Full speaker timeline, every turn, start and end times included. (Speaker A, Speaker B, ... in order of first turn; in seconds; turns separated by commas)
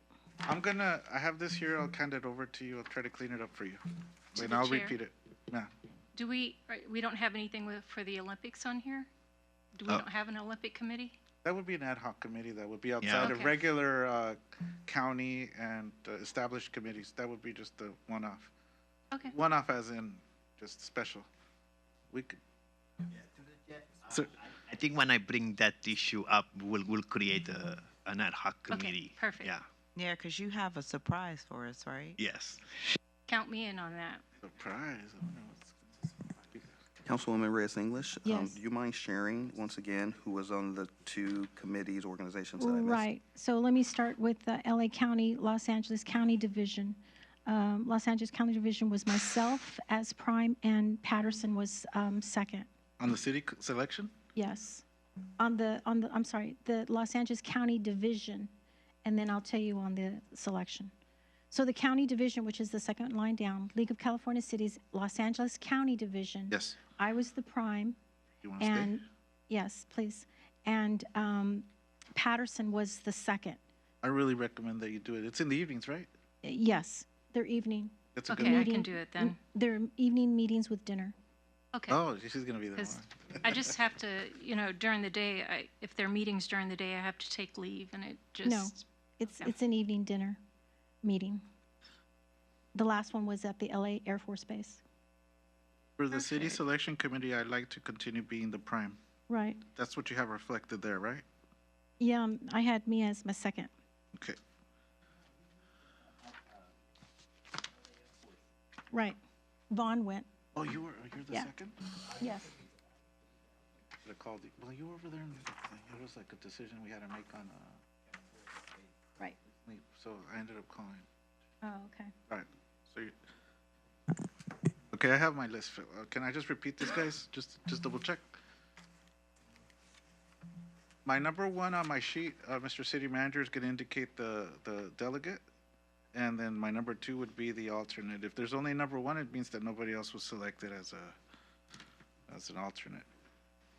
Speaker A: 0.4-3.8, Speaker A: 4.3-5.7, Speaker B: 4.3-5.0, Speaker B: 6.1-9.1, Speaker B: 9.7-11.2, Speaker A: 11.4-18.5, Speaker C: 13.0-13.4, Speaker B: 13.2-13.6, Speaker A: 19.3-21.3, Speaker A: 22.1-22.4, Speaker C: 23.1-29.6, Speaker B: 28.7-29.5, Speaker D: 29.9-32.2, Speaker C: 32.2-32.6, Speaker B: 33.3-34.2, Speaker A: 34.4-36.7, Speaker E: 37.0-43.1, Speaker F: 38.2-38.6, Speaker F: 42.6-52.7, Speaker A: 53.0-54.1, Speaker F: 54.3-54.8, Speaker F: 55.4-58.5, Speaker F: 59.0-60.9, Speaker F: 61.5-68.0, Speaker A: 66.5-66.8, Speaker A: 68.4-69.0, Speaker F: 68.6-73.6, Speaker A: 74.0-76.1, Speaker F: 76.4-81.1, Speaker A: 78.1-78.7, Speaker B: 78.3-79.4, Speaker B: 81.7-82.0, Speaker A: 81.9-83.8, Speaker B: 82.7-88.8, Speaker F: 88.4-90.4, Speaker F: 91.0-91.4, Speaker F: 92.7-94.8, Speaker A: 96.0-99.0, Speaker B: 96.3-96.5, Speaker F: 99.3-99.6, Speaker A: 99.7-101.2, Speaker F: 102.0-103.7, Speaker F: 108.9-109.2, Speaker F: 109.7-110.3, Speaker A: 110.5-111.8, Speaker F: 112.2-112.6, Speaker A: 114.0-117.8, Speaker A: 119.7-121.0, Speaker F: 121.6-122.1, Speaker A: 122.3-123.1, Speaker A: 124.9-128.4, Speaker A: 131.0-135.4, Speaker A: 136.1-141.2, Speaker A: 142.3-143.1